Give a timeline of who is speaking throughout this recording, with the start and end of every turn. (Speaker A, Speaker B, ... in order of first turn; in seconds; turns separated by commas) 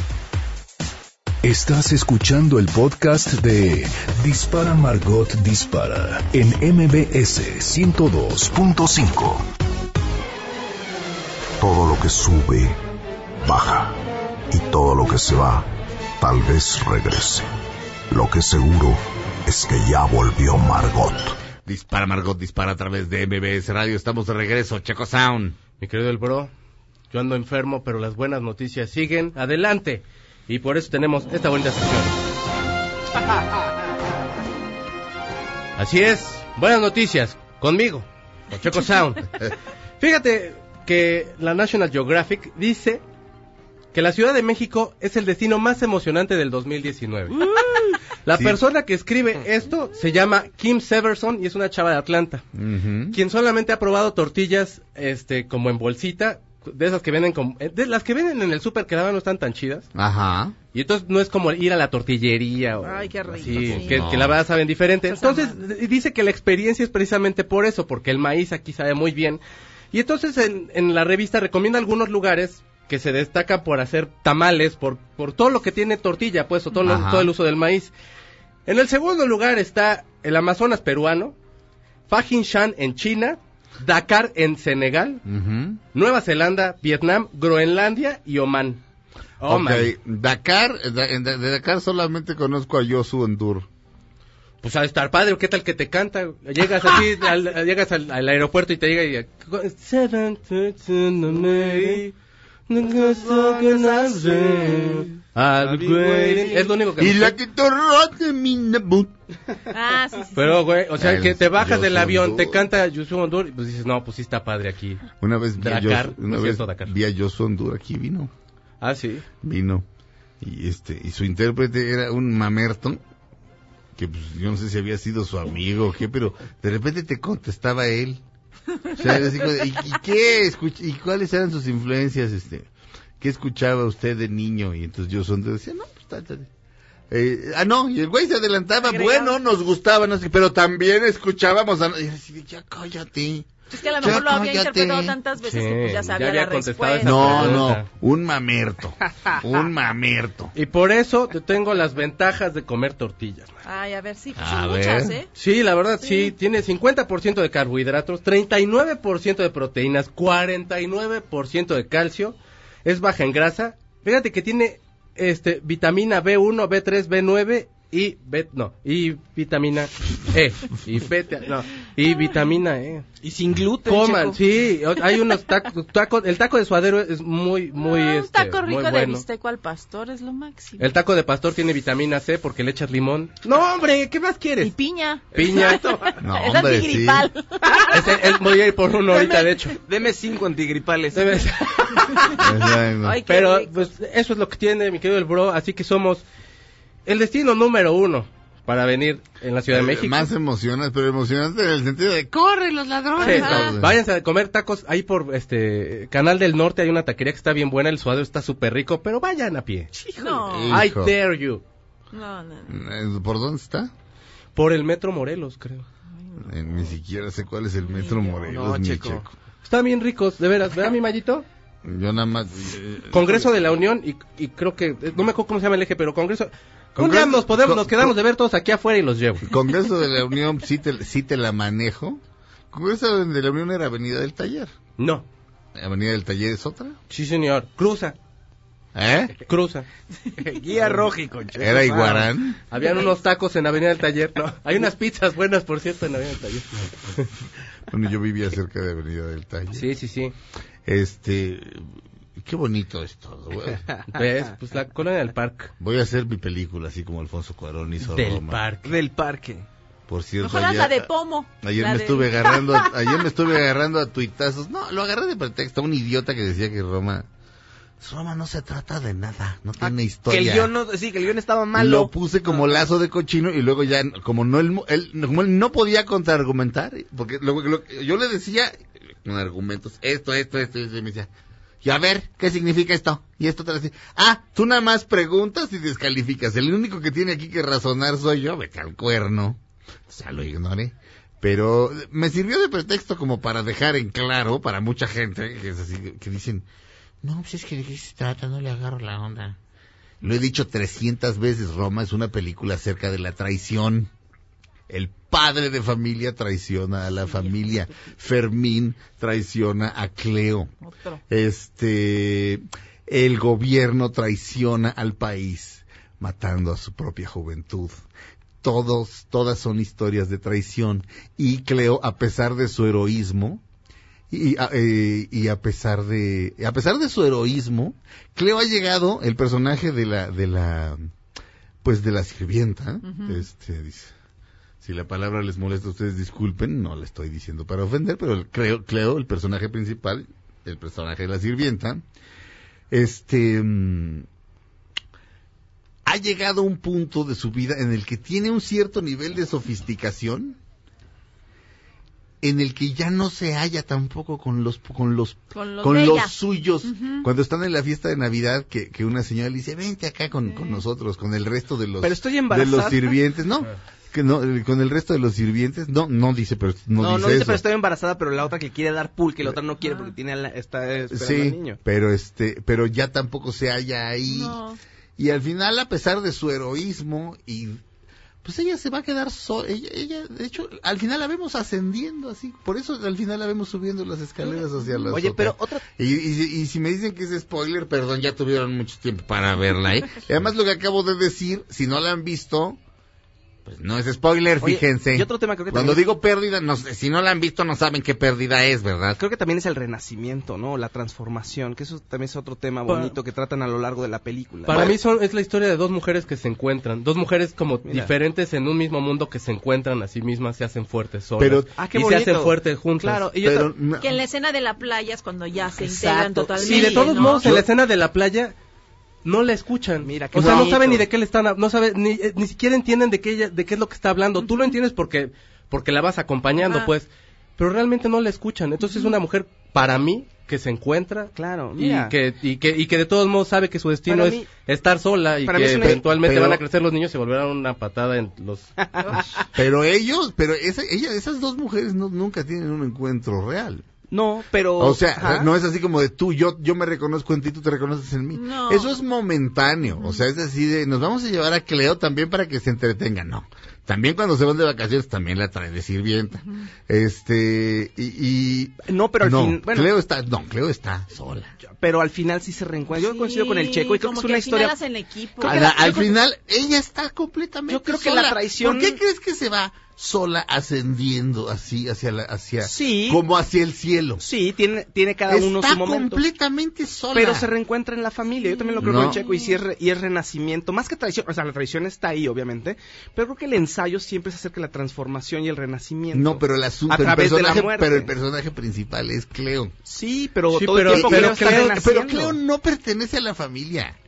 Speaker A: 1.4-9.1, Speaker B: 9.1-9.4, Speaker B: 11.6-12.8, Speaker B: 13.4-17.5, Speaker B: 18.1-21.4, Speaker C: 21.6-25.6, Speaker D: 25.8-26.5, Speaker D: 27.1-32.2, Speaker D: 35.8-43.0, Speaker D: 43.9-52.4, Speaker C: 52.5-53.2, Speaker D: 53.1-59.9, Speaker C: 59.9-60.5, Speaker D: 60.7-69.4, Speaker E: 62.8-64.1, Speaker C: 63.4-64.4, Speaker E: 65.1-65.6, Speaker D: 69.9-77.9, Speaker C: 76.8-77.3, Speaker D: 78.7-81.3, Speaker D: 82.1-85.2, Speaker C: 85.2-85.8, Speaker D: 85.9-88.8, Speaker D: 89.4-89.9, Speaker C: 89.4-93.7, Speaker D: 94.6-102.1, Speaker D: 102.7-107.3, Speaker F: 103.0-106.7, Speaker C: 107.0-109.1, Speaker E: 109.7-110.7, Speaker D: 110.3-115.0, Speaker C: 111.0-112.6, Speaker C: 115.2-118.3, Speaker D: 115.6-116.9, Speaker D: 118.8-119.2, Speaker C: 119.4-119.8, Speaker C: 120.4-123.0, Speaker C: 124.0-128.2, Speaker C: 128.9-132.7, Speaker C: 133.2-136.5, Speaker C: 137.1-145.2, Speaker E: 138.8-139.3, Speaker E: 143.7-147.7, Speaker D: 145.4-147.8, Speaker C: 147.0-150.5, Speaker D: 150.5-153.6, Speaker E: 153.6-155.3, Speaker C: 154.3-155.2, Speaker D: 155.3-173.1, Speaker E: 156.0-156.3, Speaker F: 173.2-174.4, Speaker D: 173.8-179.2, Speaker E: 177.8-180.9, Speaker D: 180.8-184.7, Speaker E: 184.6-187.9, Speaker F: 185.3-186.0, Speaker D: 185.3-186.1, Speaker C: 186.2-187.3, Speaker F: 187.7-192.4, Speaker D: 187.9-189.8, Speaker D: 191.1-191.9, Speaker E: 192.2-192.4, Speaker C: 192.4-193.2, Speaker E: 193.0-193.8, Speaker D: 193.3-196.2, Speaker D: 197.1-200.3, Speaker C: 199.7-204.0, Speaker E: 203.2-203.8, Speaker D: 203.2-210.0, Speaker F: 210.0-210.3, Speaker E: 210.2-210.8, Speaker C: 210.4-211.1, Speaker D: 210.7-211.6, Speaker E: 212.1-212.8, Speaker C: 212.7-213.9, Speaker D: 214.6-215.8, Speaker C: 216.4-219.3, Speaker E: 217.9-218.5, Speaker F: 218.5-219.3, Speaker D: 219.6-221.4, Speaker C: 221.8-223.5, Speaker D: 223.1-229.5, Speaker C: 226.9-228.2, Speaker C: 229.4-232.2, Speaker C: 232.7-234.7, Speaker D: 235.0-235.2, Speaker C: 235.7-236.9, Speaker D: 237.1-238.2, Speaker C: 238.9-239.3, Speaker D: 239.4-239.9, Speaker F: 240.3-242.3, Speaker C: 241.5-242.6, Speaker D: 242.7-247.3, Speaker C: 247.9-249.9, Speaker D: 249.7-250.3, Speaker C: 250.8-253.8, Speaker F: 253.9-254.2, Speaker D: 254.1-255.7, Speaker C: 255.8-258.6, Speaker D: 258.0-259.0, Speaker F: 258.8-259.7, Speaker C: 260.1-261.1, Speaker E: 260.4-262.9, Speaker C: 261.6-267.3, Speaker C: 268.0-270.7, Speaker F: 269.8-272.8, Speaker C: 271.7-281.3, Speaker C: 281.8-296.6, Speaker C: 297.2-299.6, Speaker C: 300.2-304.1, Speaker C: 304.9-310.7, Speaker E: 307.2-307.8, Speaker E: 310.8-311.2, Speaker C: 311.3-318.0, Speaker C: 318.6-323.6, Speaker C: 324.3-331.1, Speaker C: 331.8-334.1, Speaker E: 333.0-333.4, Speaker C: 334.8-342.0, Speaker C: 342.9-344.2, Speaker C: 346.0-350.6, Speaker C: 352.4-367.6, Speaker E: 355.5-357.2, Speaker E: 360.5-360.8, Speaker F: 362.0-363.1, Speaker F: 367.0-371.8, Speaker C: 371.1-374.6, Speaker E: 374.2-374.8, Speaker C: 375.2-377.8, Speaker C: 378.4-392.8, Speaker F: 385.1-385.8, Speaker C: 393.6-399.2, Speaker F: 394.6-396.0, Speaker F: 399.2-404.9, Speaker D: 404.7-413.3, Speaker F: 407.8-408.1, Speaker C: 411.4-411.7, Speaker F: 411.8-413.7, Speaker C: 413.0-414.2, Speaker E: 414.0-417.5, Speaker F: 415.7-417.5, Speaker D: 416.6-418.5, Speaker D: 419.2-439.2, Speaker F: 420.0-421.1, Speaker C: 420.3-420.7, Speaker E: 426.6-426.9, Speaker F: 431.4-432.1, Speaker F: 434.1-434.5, Speaker F: 435.4-436.0, Speaker C: 435.8-436.6, Speaker F: 438.8-439.4, Speaker C: 439.5-443.9, Speaker F: 444.1-445.5, Speaker C: 444.8-461.6, Speaker E: 448.3-448.9, Speaker F: 458.9-459.9, Speaker F: 461.7-464.8, Speaker E: 462.9-466.1, Speaker F: 465.4-466.1, Speaker C: 465.4-474.2, Speaker F: 467.7-469.0, Speaker F: 472.6-473.2, Speaker F: 474.2-476.2, Speaker C: 475.3-477.5, Speaker F: 477.1-488.1, Speaker E: 478.5-479.6, Speaker C: 478.8-479.2, Speaker C: 486.1-489.7, Speaker F: 489.9-492.4, Speaker D: 490.5-491.8, Speaker C: 490.8-494.0